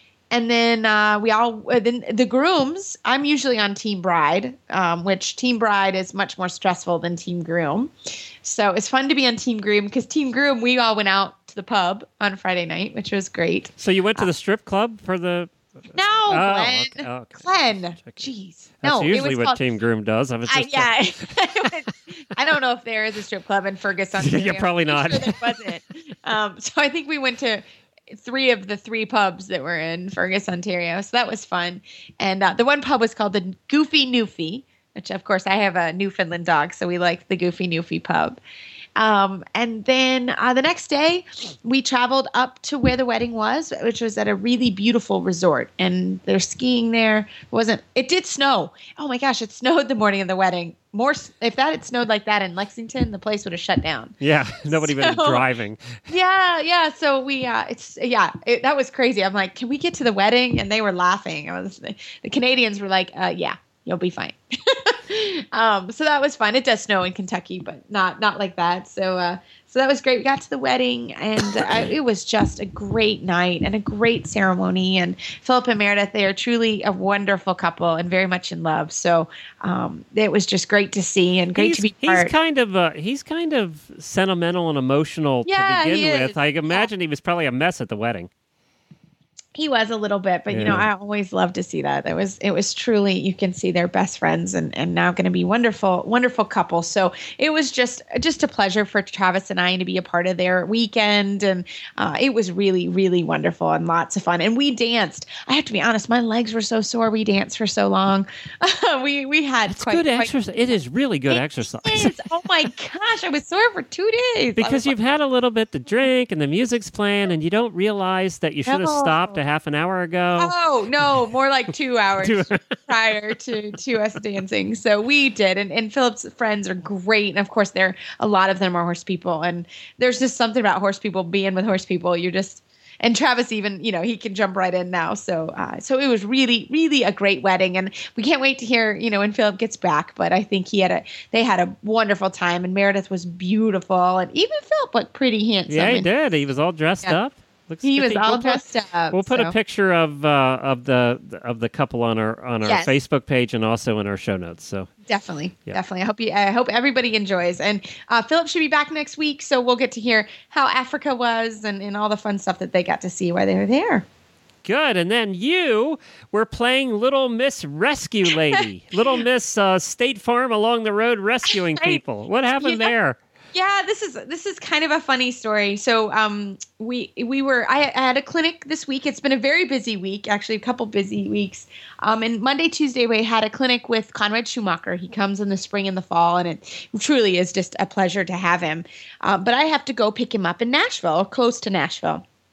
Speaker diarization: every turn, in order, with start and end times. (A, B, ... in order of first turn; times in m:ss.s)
0:00.3-0:14.3 A
0:13.8-0:18.3 B
0:16.0-0:19.6 A
0:18.8-0:21.7 B
0:20.5-0:38.4 A
0:24.2-0:25.7 B
0:39.0-0:55.5 A
0:54.2-0:56.0 B
0:56.1-1:22.3 A
1:21.5-1:28.3 B
1:25.4-1:26.9 A
1:29.5-1:50.3 A
1:30.5-1:30.9 B
1:49.7-1:52.2 B
1:51.3-1:55.0 A
1:54.6-2:00.5 B
1:58.7-1:59.4 A
2:00.4-2:26.1 A
2:02.2-2:02.8 B
2:25.7-2:34.9 B
2:27.8-2:29.6 A
2:32.6-2:32.9 A
2:35.1-2:44.0 A
2:44.6-2:53.2 B
2:51.8-2:52.0 A
2:52.6-2:52.9 A
2:53.5-3:12.2 A